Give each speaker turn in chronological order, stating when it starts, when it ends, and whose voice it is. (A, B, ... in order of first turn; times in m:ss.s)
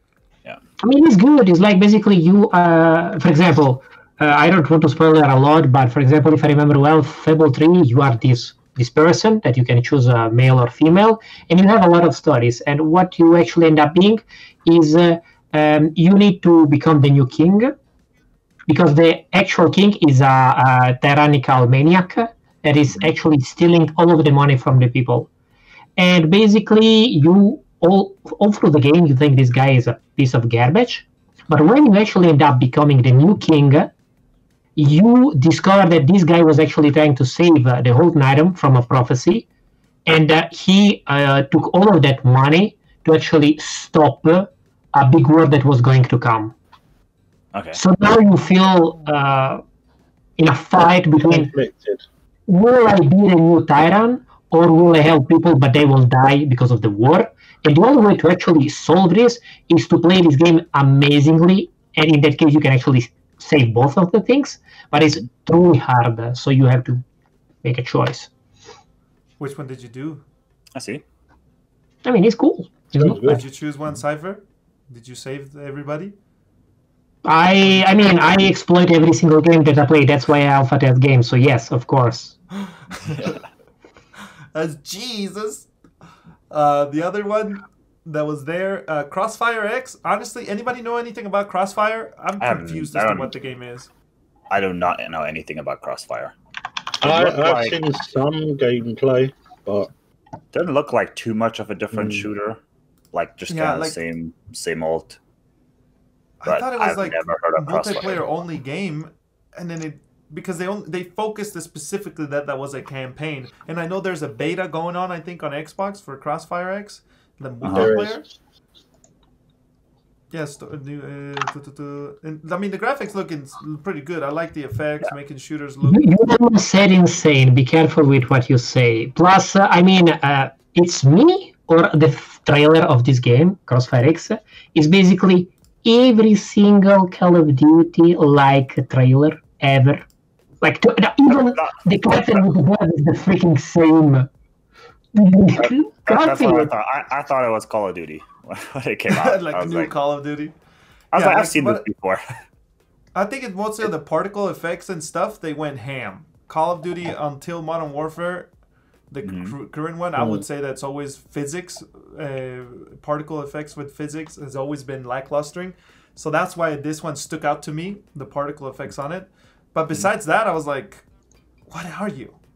0:00.8-0:17.7 A
0:18.7-0:25.3 A
0:26.0-0:33.9 A
0:34.8-0:39.5 A
0:40.1-0:46.5 A
0:47.5-0:47.8 B
0:47.8-0:49.6 A
0:50.4-0:51.5 A
0:51.3-0:52.0 C
0:52.5-1:07.0 A
1:07.6-1:08.3 A
1:09.4-1:10.2 D
1:10.8-1:11.0 B
1:12.0-1:13.4 A
1:13.0-1:13.4 C
1:13.2-1:16.2 D
1:17.2-1:22.4 A
1:17.6-1:17.9 D
1:22.7-1:23.3 D
1:23.1-1:23.4 B
1:24.5-1:25.7 D
1:26.5-1:33.9 D
1:32.4-1:33.3 B
1:34.5-1:36.3 B
1:37.0-1:37.8 B
1:37.0-1:39.9 C
1:40.5-1:42.6 B
1:41.9-1:42.3 C
1:43.1-1:45.2 B
1:43.5-1:44.0 D
1:46.4-1:58.2 D
1:46.5-1:48.2 B
1:57.6-1:57.9 B
1:57.7-1:58.3 C
2:00.3-2:06.0 D
2:05.8-2:20.1 A
2:20.6-2:24.3 A
2:21.4-2:22.4 B
2:25.1-2:26.7 A
2:25.6-2:29.9 B
2:29.1-2:30.5 D
2:31.1-2:31.8 D
2:31.1-2:32.2 B
2:33.2-2:38.5 D
2:39.1-2:51.0 D
2:39.2-2:39.6 B
2:40.2-2:40.4 C
2:51.7-2:52.4 D